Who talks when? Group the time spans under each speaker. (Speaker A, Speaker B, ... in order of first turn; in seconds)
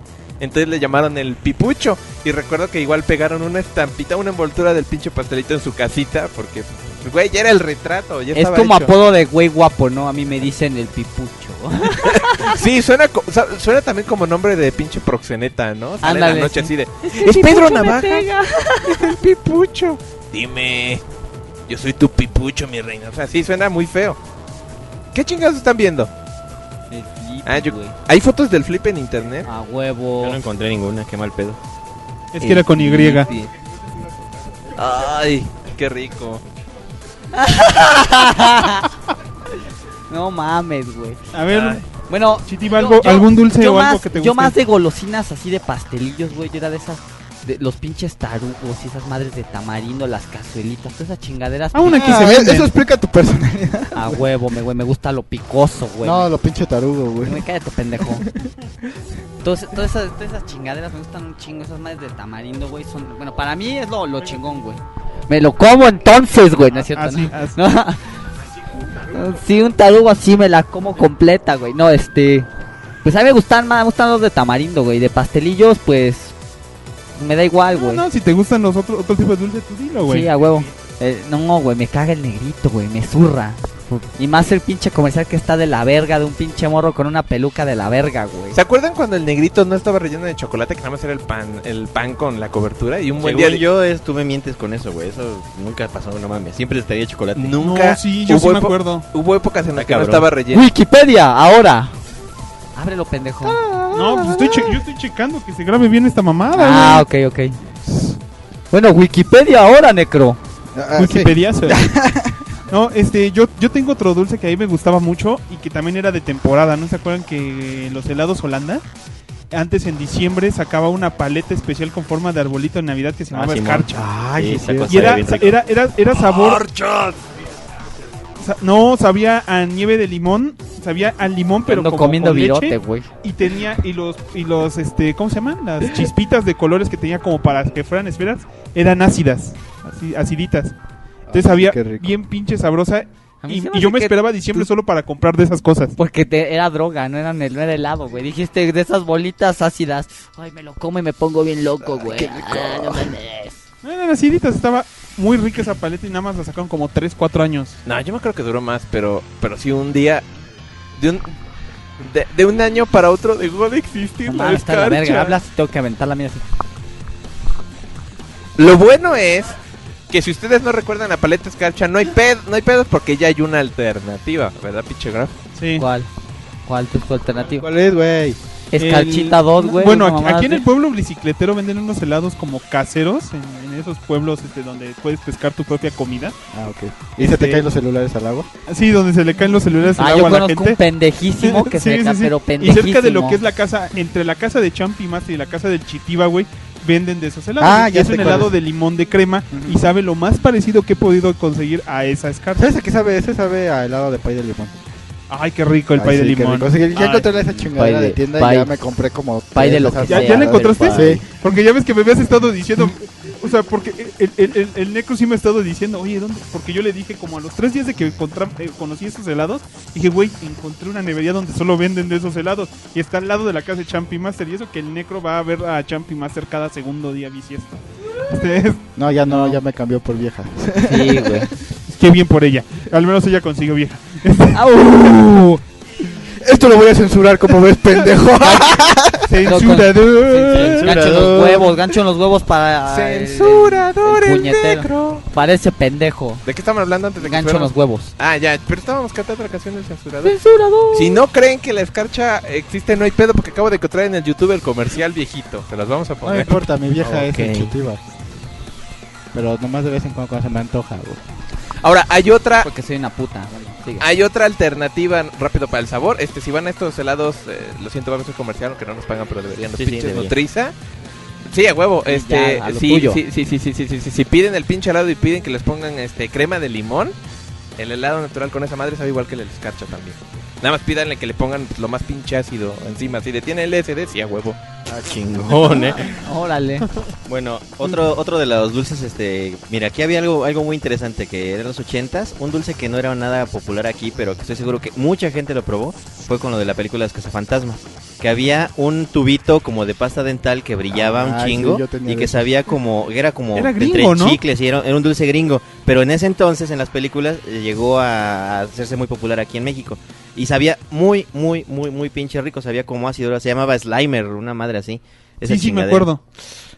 Speaker A: 0.4-8.9, 12.0-18.3, 18.8-21.0, 21.7-24.2, 25.1-26.1, 27.5-29.5, 34.8-36.4, 41.5-41.8, 88.5-93.6, 97.4-100.7, 157.8-160.2, 161.0-161.3, 162.0-165.3, 168.6-169.6, 170.1-175.4, 242.9-245.3, 246.4-250.4, 250.9-256.6, 261.8-262.7, 264.0-270.8, 271.5-277.2, 277.8-284.6
Speaker B: 8.3-12.6, 16.0-19.2, 26.9-27.9, 29.4-30.4, 32.4-33.4, 37.3-38.9, 40.1-41.2, 42.1-52.3, 53.9-56.3, 57.2-58.3, 59.4-68.0, 68.9-72.5, 73.0-76.3, 77.2-78.0, 80.0-88.6, 100.5-101.9, 102.8-103.6, 106.5-107.6, 108.7-110.4, 131.7-133.1, 143.4-144.7, 146.0-153.6, 164.3-166.4, 175.8-176.1, 176.7-177.7, 178.7-180.7, 190.0-193.4, 207.7-208.7, 209.5-211.2, 229.3-229.6, 230.9-231.5, 234.5-235.6, 238.4-238.8, 239.4-246.4, 247.2-248.1, 250.2-251.2, 262.6-264.1, 272.1-273.2, 285.6-286.9
Speaker C: 30.2-31.6, 93.2-97.6, 99.8-100.3, 123.3-125.6, 126.3-127.2, 240.6-241.8, 257.0-257.7, 269.6-270.4, 284.9-286.2, 287.2-316.1
Speaker D: 32.3-33.3, 41.3-41.8, 42.5-44.6, 51.7-52.7, 66.8-67.6, 77.7-80.3, 97.6-99.0, 103.9-107.1, 111.0-111.9, 112.7-118.8, 119.5-124.2, 124.8-126.7, 128.4-140.8, 141.3-145.9, 153.8-157.8, 175.6-175.9, 178.8-186.3, 187.2-187.6, 188.7-190.8, 191.4-202.7, 205.3-207.3, 210.0-228.8, 231.9-234.7, 239.3-241.2, 303.6-304.4, 315.4-316.2
Speaker E: 51.9-54.2, 56.0-57.5, 58.0-58.5, 103.4-104.8, 107.8-108.2, 110.7-112.4, 141.3-142.2, 177.6-178.4, 186.5-188.5, 197.6-198.5, 199.5-199.8, 202.6-204.8, 206.0-211.2, 229.0-231.5, 236.1-239.3, 256.2-258.1, 259.3-261.2, 300.9-302.5